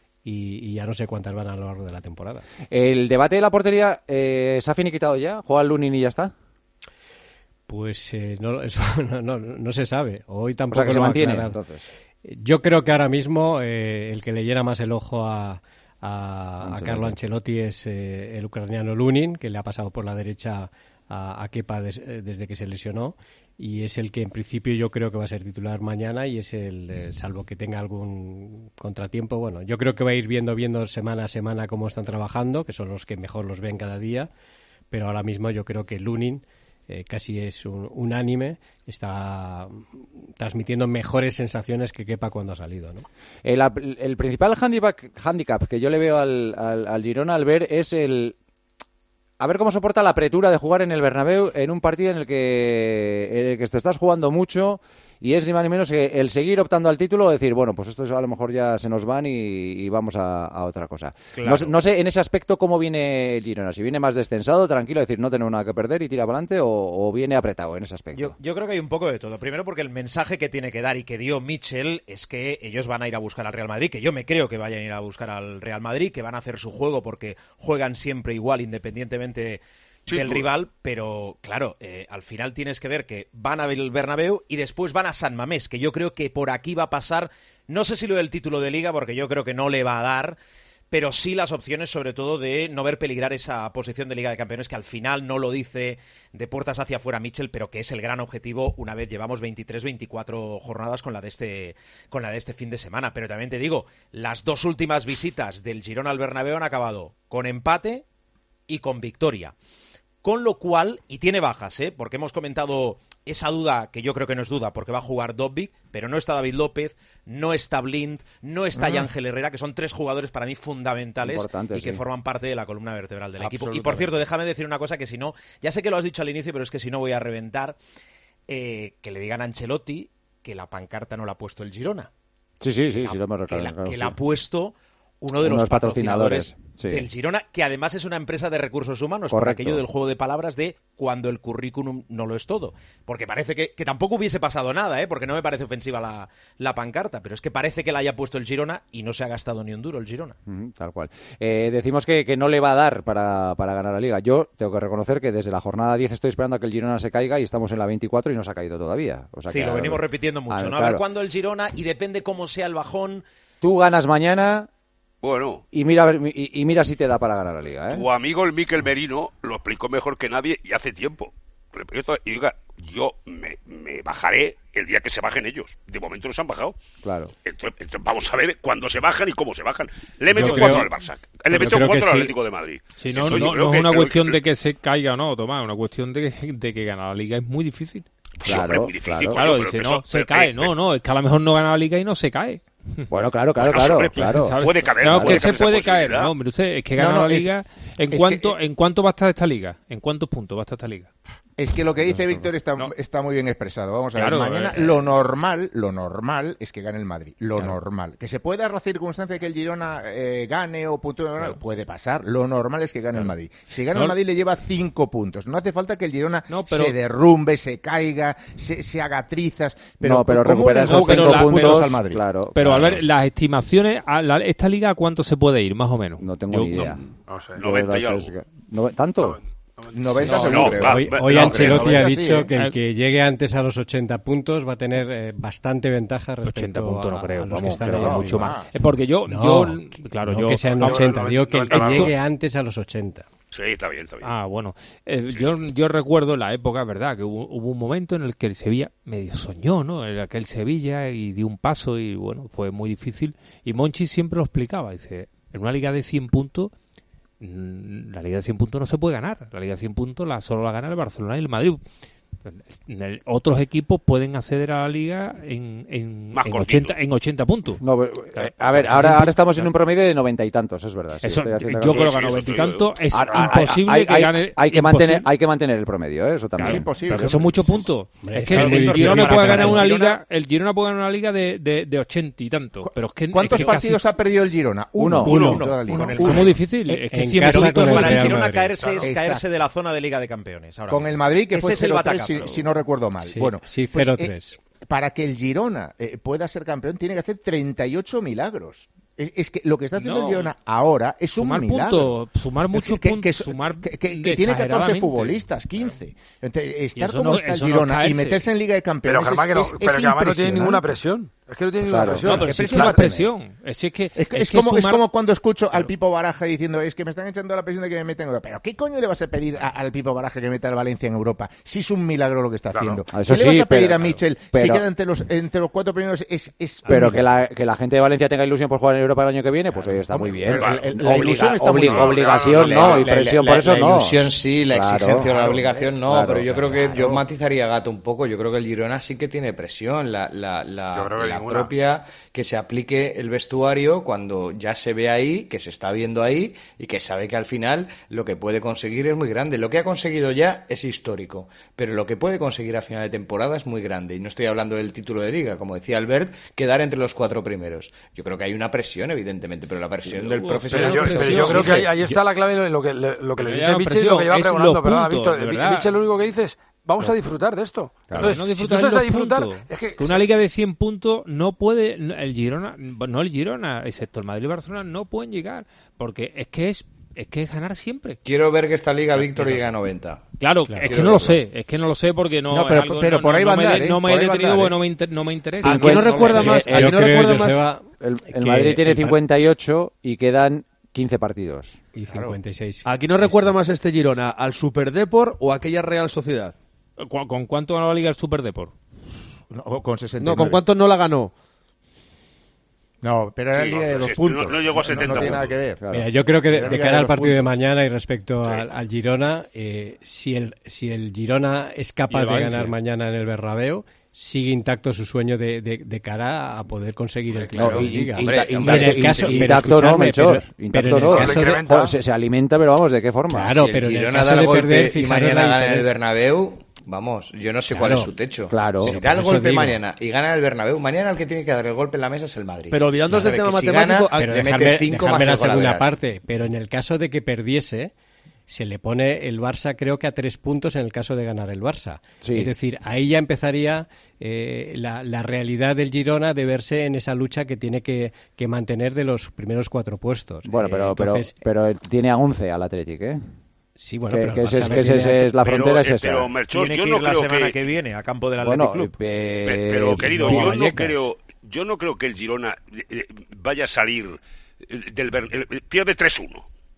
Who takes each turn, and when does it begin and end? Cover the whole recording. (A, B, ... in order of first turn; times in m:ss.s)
0:00.2-0:02.4 A
0:02.7-0:06.3 B
0:07.7-0:11.6 A
0:10.7-0:11.8 B
0:12.2-0:34.3 A
0:16.6-0:17.2 B
0:34.9-0:43.0 A
0:43.4-0:48.4 B
0:49.4-1:08.3 B
1:01.4-1:01.8 C
1:08.1-1:30.4 C
1:20.1-1:20.5 D
1:30.9-1:48.0 C
1:48.7-1:49.5 C
1:50.2-2:07.8 C
2:01.2-2:02.0 B
2:03.4-2:04.0 B
2:08.5-2:12.1 C
2:12.6-2:14.2 B
2:13.0-2:30.4 C
2:15.4-2:17.1 B
2:19.3-2:19.8 B
2:30.5-2:41.0 B
2:39.5-2:43.2 C
2:43.6-2:44.7 B
2:45.2-2:45.6 D
2:45.7-2:48.0 B
2:47.9-2:56.7 D
2:57.0-2:57.3 B
2:57.4-3:04.4 D
3:00.3-3:00.9 A
3:00.3-3:00.9 E
3:01.5-3:02.3 A
3:03.0-3:08.0 E
3:08.4-3:10.7 D
3:08.4-3:09.4 B
3:09.3-3:13.1 E
3:13.1-3:14.6 B
3:13.6-3:16.3 D
3:14.1-3:21.1 E
3:15.1-3:15.4 B
3:17.0-3:17.5 F
3:18.1-3:18.6 F
3:21.6-3:42.2 F
3:22.0-3:22.5 B
3:24.1-3:24.9 E
3:36.5-3:37.0 E
3:40.0-3:43.0 B
3:40.8-3:42.0 E
3:42.5-3:47.1 E
3:46.2-3:47.0 B
3:47.3-3:47.6 G
3:47.6-3:48.3 D
3:47.6-3:49.4 B
3:49.2-3:49.9 G
3:49.9-3:52.5 F
3:50.2-3:51.0 H
3:50.3-3:52.1 D
3:50.8-3:58.5 A
3:56.4-4:02.2 E
3:57.7-3:58.7 F
3:59.3-4:03.3 A
4:00.8-4:02.1 G
4:03.5-4:04.3 D
4:04.2-4:16.7 E
4:17.4-4:21.8 E
4:22.4-4:27.8 E
4:26.3-4:27.0 D
4:27.8-4:32.1 B
4:28.3-4:29.7 E
4:31.2-4:35.3 E
4:31.8-4:33.1 D
4:33.1-4:36.9 B
4:36.6-4:44.1 E
4:36.6-4:37.9 F
4:38.2-4:39.9 A
4:38.5-4:40.2 C
4:42.9-4:47.0 F
4:45.0-4:45.4 B
4:45.3-4:46.6 C
4:45.4-4:46.3 A
4:45.9-4:48.4 E
4:47.1-4:49.0 A
4:47.4-4:52.5 C
4:49.0-4:49.4 F
4:50.9-4:54.3 F
4:53.2-4:54.6 A
4:54.9-5:02.1 F
5:00.0-5:00.5 E
5:01.3-5:05.9 E
5:02.7-5:10.9 F
5:06.9-5:08.4 E
5:09.0-5:12.9 G
5:11.8-5:13.2 B
5:12.2-5:15.0 E
5:12.4-5:13.2 F
5:14.2-5:27.2 F
5:23.1-5:24.8 B
5:26.8-5:37.2 B
5:30.1-5:33.3 F
5:30.6-5:30.9 D
5:31.9-5:32.6 D
5:32.0-6:01.9 H
5:40.9-5:41.7 G
6:00.1-6:01.9 E
6:00.7-6:10.3 G
6:03.4-6:05.9 E
6:08.1-6:08.4 B
6:08.2-6:18.2 E
6:18.2-6:20.2 H
6:19.2-6:19.7 E
6:20.4-6:26.7 E
6:20.7-6:20.9 A
6:20.8-6:21.4 H
6:22.5-6:24.8 F
6:25.6-6:27.2 B
6:25.6-6:27.6 I
6:26.2-6:29.2 A
6:28.0-6:31.8 B
6:31.9-6:33.5 A
6:32.8-6:36.5 I
6:37.0-6:38.7 E
6:39.5-6:40.6 F
6:40.2-6:41.3 I
6:43.0-6:45.9 F
6:43.5-6:45.6 D
6:45.0-6:46.1 B
6:45.9-7:01.6 A
6:46.5-6:47.5 F
6:52.1-6:52.7 E
6:57.5-7:03.6 B
6:57.5-6:59.8 H
7:01.0-7:02.0 G
7:03.3-7:05.9 A
7:03.4-7:15.9 H
7:07.7-7:08.1 A
7:08.5-7:09.0 B
7:08.8-7:09.8 A
7:12.7-7:14.4 I
7:14.1-7:17.9 A
7:18.5-7:31.3 A
7:22.2-7:22.5 B
7:30.4-7:33.2 B
7:33.8-7:35.3 A
7:34.1-7:36.3 B
7:35.4-7:37.6 D
7:36.4-7:38.9 C
7:38.4-7:40.8 B
7:39.4-7:46.4 D
7:40.1-7:41.0 A